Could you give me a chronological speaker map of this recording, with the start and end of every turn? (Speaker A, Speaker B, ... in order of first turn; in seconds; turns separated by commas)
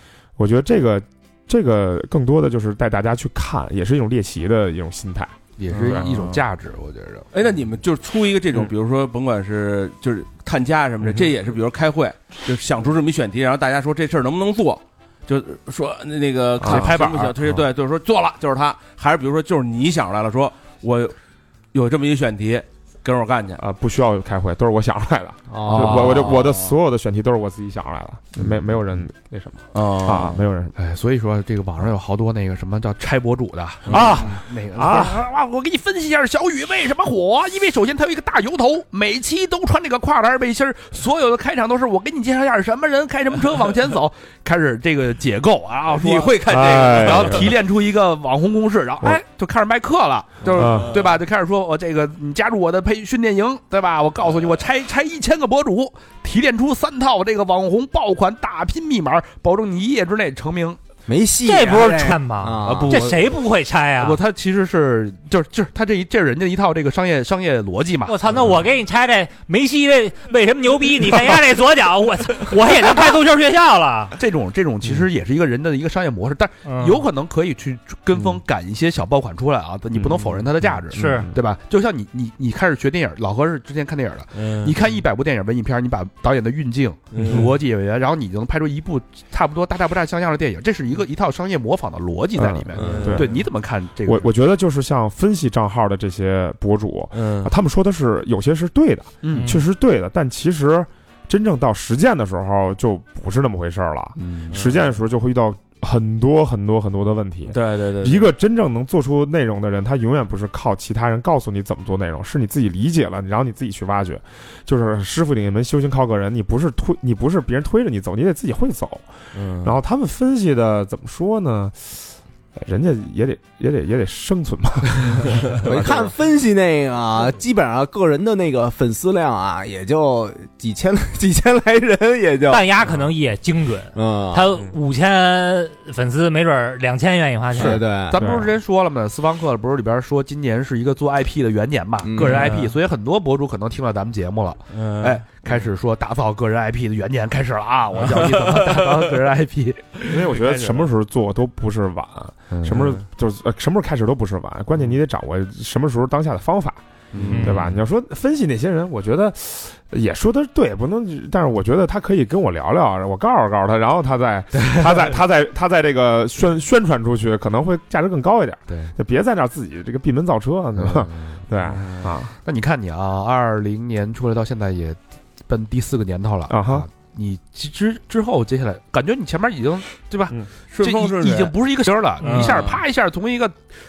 Speaker A: 0.4-6.1, Speaker B: 5.6-7.3, Speaker C: 5.7-6.4, Speaker C: 7.3-21.1, Speaker A: 16.6-17.0, Speaker B: 16.6-17.5, Speaker C: 21.7-23.6, Speaker A: 23.6-30.8, Speaker D: 25.5-26.2, Speaker B: 25.6-26.5, Speaker C: 29.7-30.4, Speaker B: 30.8-60.8, Speaker A: 33.9-35.2, Speaker C: 33.9-34.2, Speaker C: 45.9-47.5, Speaker A: 46.5-47.5, Speaker A: 50.5-51.0, Speaker D: 61.1-63.2, Speaker E: 61.4-64.2, Speaker B: 62.6-63.4, Speaker B: 64.0-68.5, Speaker E: 68.1-74.2, Speaker B: 74.2-94.3, Speaker E: 76.7-77.0, Speaker A: 80.6-81.4, Speaker E: 80.9-81.3, Speaker C: 84.3-84.8, Speaker C: 87.1-87.5, Speaker A: 92.4-93.4, Speaker C: 92.8-93.4, Speaker A: 94.0-119.1, Speaker C: 97.1-97.5, Speaker B: 99.2-99.6, Speaker E: 99.3-99.6, Speaker B: 104.2-104.6, Speaker C: 104.5-104.8, Speaker C: 107.5-108.3, Speaker C: 119.3-119.8, Speaker A: 119.6-125.5, Speaker C: 125.5-126.1, Speaker D: 125.6-132.7, Speaker E: 132.5-137.8, Speaker D: 133.9-134.5, Speaker D: 137.5-138.2, Speaker A: 137.6-138.5, Speaker B: 137.6-150.9, Speaker D: 142.0-142.5, Speaker C: 142.2-142.7, Speaker C: 144.7-145.2, Speaker C: 148.1-148.6, Speaker A: 150.1-156.8, Speaker B: 152.5-152.9, Speaker B: 157.1-157.6, Speaker C: 157.1-157.8, Speaker E: 157.3-157.6, Speaker A: 157.4-172.3, Speaker B: 168.7-168.9, Speaker B: 170.8-171.8, Speaker C: 171.7-172.1, Speaker B: 172.4-183.6, Speaker A: 176.5-176.9, Speaker C: 180.7-181.5, Speaker C: 182.2-182.8, Speaker E: 182.2-182.5